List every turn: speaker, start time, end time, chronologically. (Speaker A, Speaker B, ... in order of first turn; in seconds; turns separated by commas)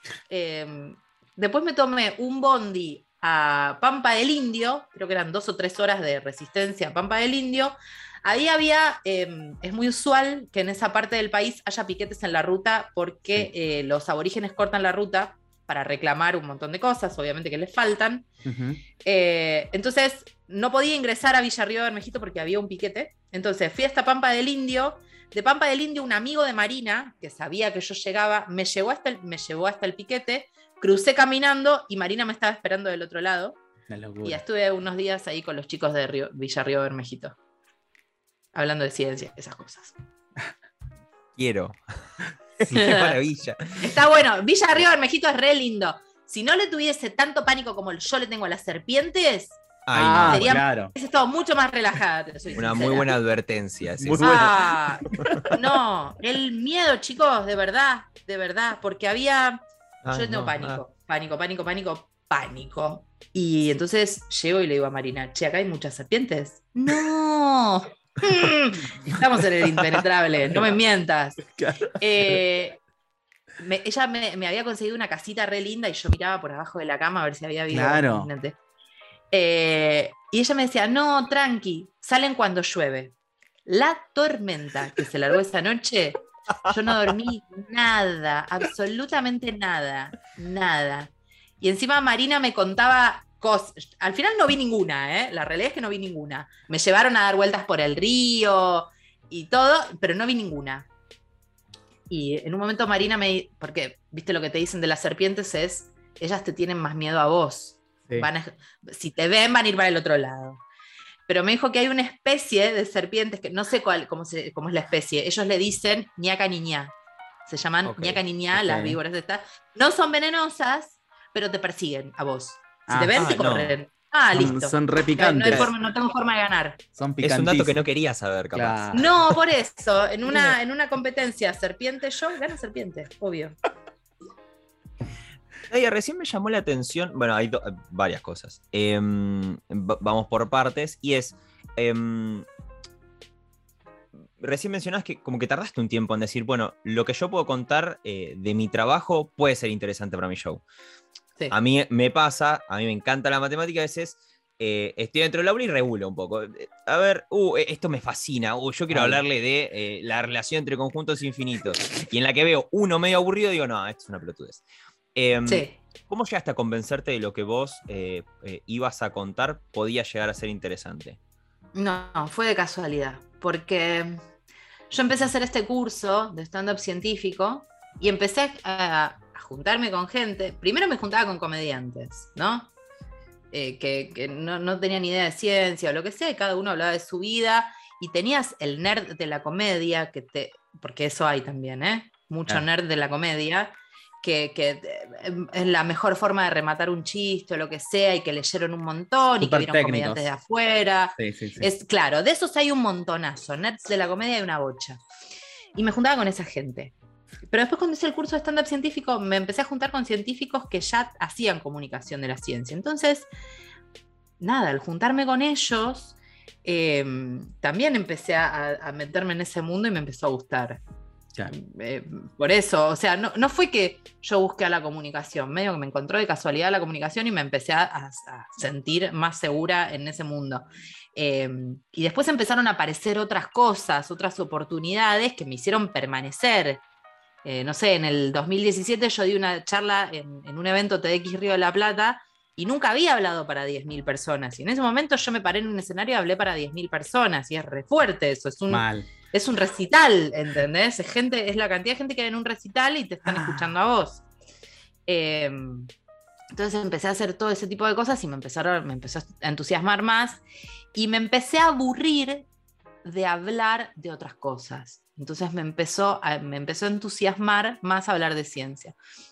Speaker A: 0.3-18.3, Speaker B: 18.5-18.8, Speaker A: 19.0-33.6, Speaker B: 33.9-34.4, Speaker A: 34.2-37.4, Speaker A: 38.5-40.0, Speaker C: 41.4-42.1, Speaker C: 42.6-44.0, Speaker A: 42.7-43.2, Speaker A: 43.8-49.6, Speaker C: 49.9-50.6, Speaker B: 50.0-50.9, Speaker A: 50.2-53.1, Speaker C: 52.5-55.4, Speaker B: 54.0-55.5, Speaker A: 54.2-72.8, Speaker C: 60.0-60.8, Speaker B: 71.5-72.4, Speaker A: 73.6-78.6, Speaker B: 77.7-78.3, Speaker A: 79.3-83.1, Speaker A: 83.7-100.9, Speaker A: 102.1-110.6, Speaker A: 111.3-117.0, Speaker A: 117.5-126.8, Speaker B: 118.0-119.0, Speaker B: 122.9-123.2, Speaker C: 123.1-123.8, Speaker B: 124.3-125.7, Speaker B: 127.0-127.8, Speaker C: 127.2-128.9, Speaker B: 128.5-129.4, Speaker A: 128.9-133.6, Speaker C: 135.7-142.5, Speaker C: 144.4-150.6, Speaker C: 151.5-164.6, Speaker B: 158.9-159.2, Speaker C: 165.2-171.2, Speaker A: 165.5-165.8, Speaker A: 171.7-174.2, Speaker A: 174.9-182.7, Speaker A: 183.5-205.0, Speaker B: 199.4-200.3, Speaker B: 201.2-201.7, Speaker A: 205.8-213.3, Speaker A: 214.4-220.8, Speaker A: 221.5-236.8, Speaker A: 237.4-254.2, Speaker B: 248.7-249.1, Speaker B: 253.3-253.7, Speaker A: 255.1-255.9, Speaker A: 256.5-260.4, Speaker A: 260.9-262.5, Speaker A: 263.0-269.0